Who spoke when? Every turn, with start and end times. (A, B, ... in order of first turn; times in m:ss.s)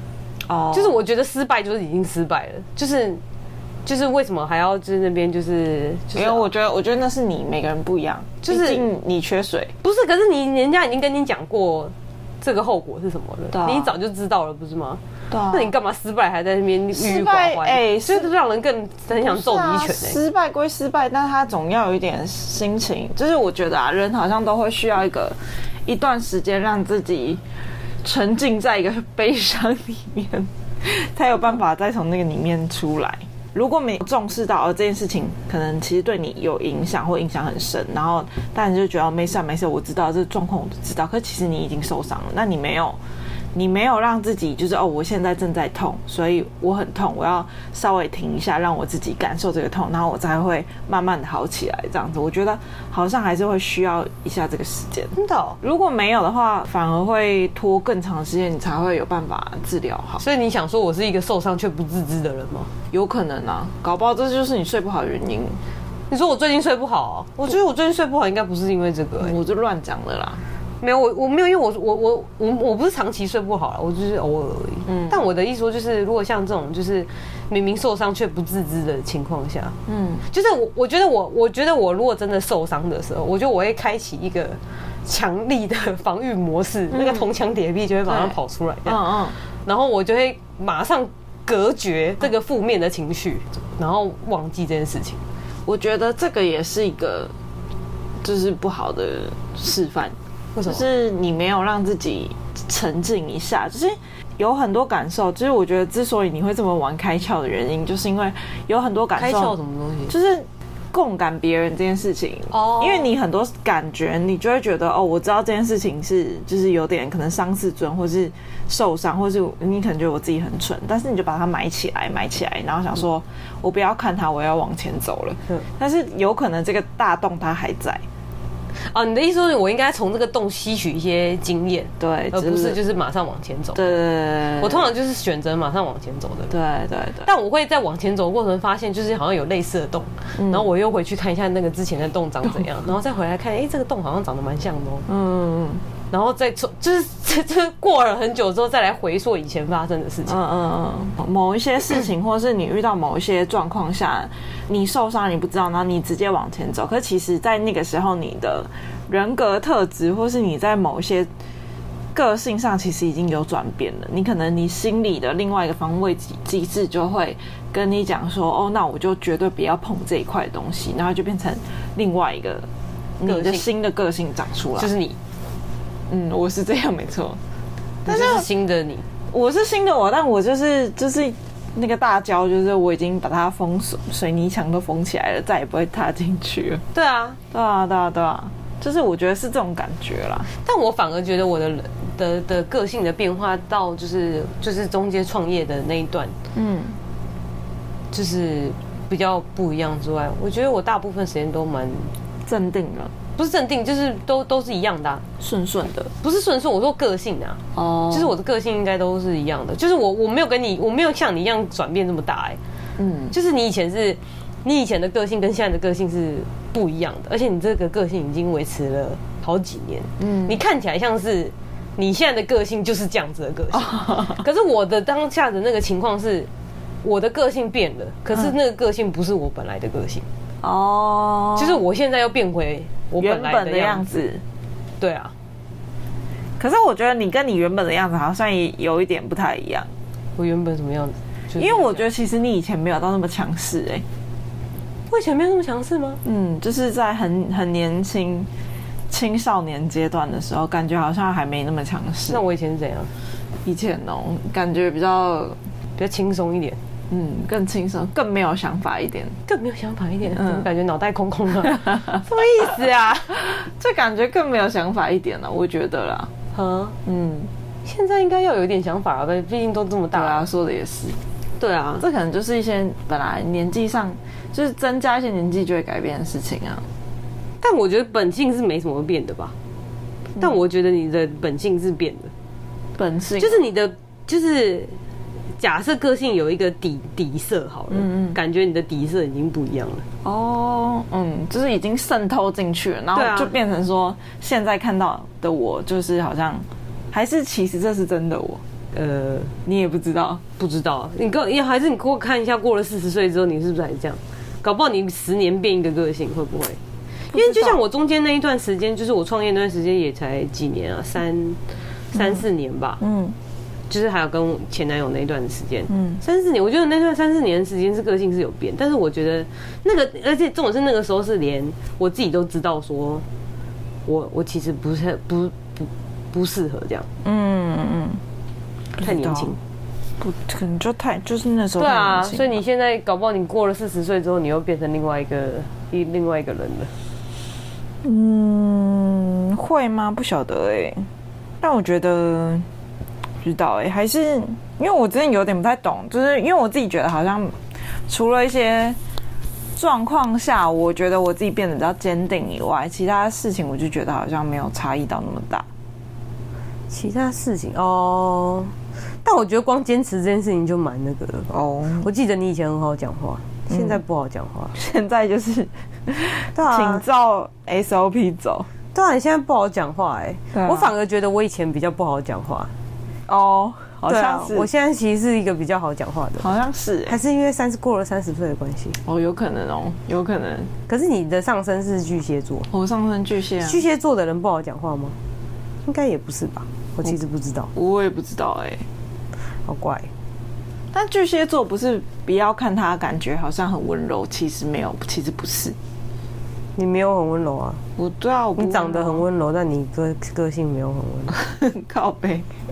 0:00.4-0:01.0 A
0:00.7-0:03.2 B
0:03.8-0:06.5 B
0:06.2-0:09.7 A
0:08.4-0:08.8 B
0:09.8-0:20.2 B
0:13.5-0:13.9 A
0:15.3-0:15.7 A
0:16.9-0:18.3 A
0:19.2-0:27.4 A
0:28.0-0:43.0 A
0:43.5-1:00.2 A
0:55.2-0:55.6 B
1:00.2-1:02.7 B
1:02.9-1:05.6 A
1:06.1-1:09.4 B
1:09.2-1:10.4 A
1:10.8-1:19.8 B
1:14.8-1:15.2 A
1:19.9-1:20.2 A
1:20.3-1:35.2 B
1:26.9-1:27.2 A
1:28.1-1:29.4 A
1:35.7-1:37.3 A
1:38.2-1:49.5 A
1:40.5-1:40.8 B
1:49.2-1:50.1 B
1:50.1-2:08.0 A
1:52.5-1:53.1 B
2:08.8-2:14.0 B
2:12.0-2:12.8 A
2:13.7-2:14.9 A
2:14.6-2:16.5 B
2:16.5-2:17.3 A
2:17.2-2:25.0 B
2:20.4-2:20.7 A
2:25.1-2:25.8 A
2:26.1-2:30.4 B
2:30.3-2:41.3 A
2:42.1-2:52.7 A
2:53.2-2:54.9 A
2:53.2-2:53.7 B
2:54.8-2:55.2 B
2:56.1-2:57.4 A
2:58.0-2:58.4 A
2:58.0-2:59.0 B
2:59.3-3:06.8 A
3:06.9-3:07.4 B
3:07.5-3:10.5 A
3:10.6-3:16.3 B
3:16.5-3:17.0 A
3:18.1-3:22.1 B
3:22.4-3:23.1 A
3:23.4-3:25.2 B
3:25.4-3:26.1 A
3:26.2-3:32.6 B
3:27.7-3:28.3 A
3:33.0-3:33.3 A
3:33.3-3:46.5 B
3:40.2-3:40.6 A
3:43.7-3:44.4 A
3:47.0-3:50.2 B
3:50.6-3:51.8 A
3:51.6-3:54.0 B
3:53.2-3:54.4 A
3:55.0-3:55.3 B
3:56.6-3:59.9 A
4:00.4-4:02.1 B
4:01.6-4:04.0 A
4:05.1-4:06.2 B
4:06.2-4:08.5 A
4:09.1-4:12.4 A
4:12.3-4:13.1 B
4:13.6-4:15.6 A
4:16.0-4:16.8 B
4:17.1-4:19.4 A
4:19.5-4:23.3 B
4:20.3-4:20.7 A
4:23.4-4:26.3 A
4:26.5-4:27.0 B
4:27.0-4:27.5 A
4:27.8-4:30.4 B
4:30.1-4:31.2 A
4:31.6-4:32.0 B
4:32.0-4:36.8 A
4:37.6-4:39.5 B
4:40.4-4:42.3 B
4:43.0-4:43.7 A
4:43.4-4:45.0 B
4:45.6-4:50.0 B
4:47.9-4:48.4 A
4:50.2-4:58.6 A
4:53.1-4:53.5 B
4:58.9-4:59.5 B
4:59.6-5:00.4 A
5:00.6-5:06.8 B
5:07.3-5:07.8 A
5:07.3-5:11.6 B
5:12.1-5:13.0 B
5:12.1-5:12.4 A
5:13.0-5:13.3 A
5:13.9-5:23.2 B
5:15.9-5:16.2 A
5:24.0-5:27.1 B
5:27.2-5:28.2 A
5:29.0-5:29.6 A
5:29.0-5:29.6 B
5:30.2-5:32.6 A
5:31.8-5:36.9 B
5:38.0-5:41.1 A
5:41.6-5:42.7 A
5:43.4-5:47.6 A
5:48.1-5:49.0 A
5:49.8-5:55.6 A
5:56.9-5:58.7 B
5:59.2-6:01.5 B
6:01.5-6:02.1 A
6:02.0-6:04.7 B
6:03.7-6:04.0 A
6:04.7-6:08.7 A
6:06.5-6:07.0 B
6:08.9-6:12.7 B
6:10.5-6:10.9 A
6:13.3-6:14.7 A
6:14.0-6:16.5 B
6:16.4-6:17.2 A
6:17.1-6:19.0 B
6:19.0-6:20.7 A
6:20.9-6:22.7 B
6:22.7-6:23.8 A
6:23.6-6:25.2 B
6:25.8-6:27.7 B
6:27.7-6:28.8 A
6:29.6-6:30.1 B
6:30.9-6:35.8 A
6:36.8-6:37.8 B
6:38.0-6:39.2 A
6:38.6-6:41.3 B
6:41.3-6:42.5 A